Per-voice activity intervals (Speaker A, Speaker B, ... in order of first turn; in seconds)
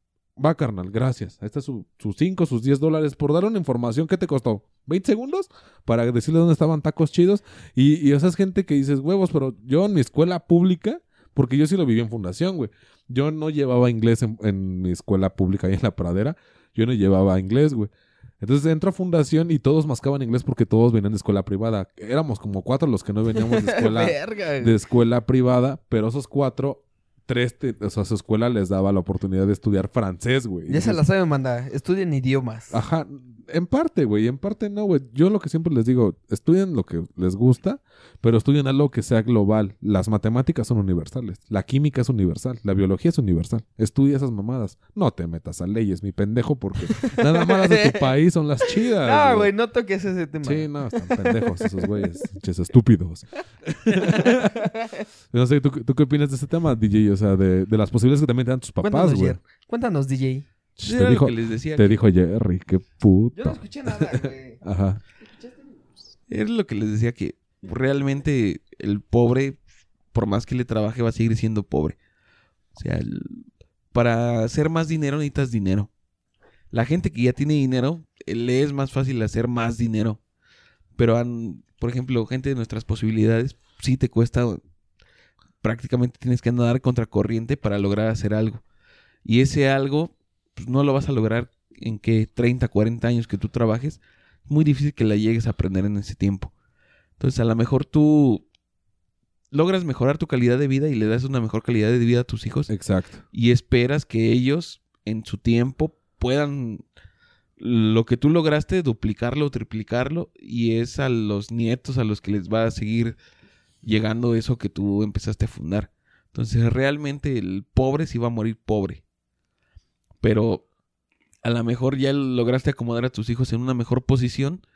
Speaker A: 0.4-17.9, 18.4-31.0, 32.7-49.5, 50.4-54.7, 55.3-59.4, 60.8-65.0, 102.7-103.2
Speaker B: 23.4-24.8, 30.7-32.8, 46.9-48.1, 48.9-52.0, 53.9-55.0, 58.8-60.5, 63.4-64.6
Speaker C: 60.8-62.0, 66.3-69.6, 70.1-72.0, 72.8-75.9, 76.7-80.2, 81.0-84.6, 85.6-88.6, 89.2-96.5, 97.2-98.5, 99.5-102.7, 103.3-106.8, 107.6-113.2, 113.8-119.0, 120.2-120.7, 121.4-124.6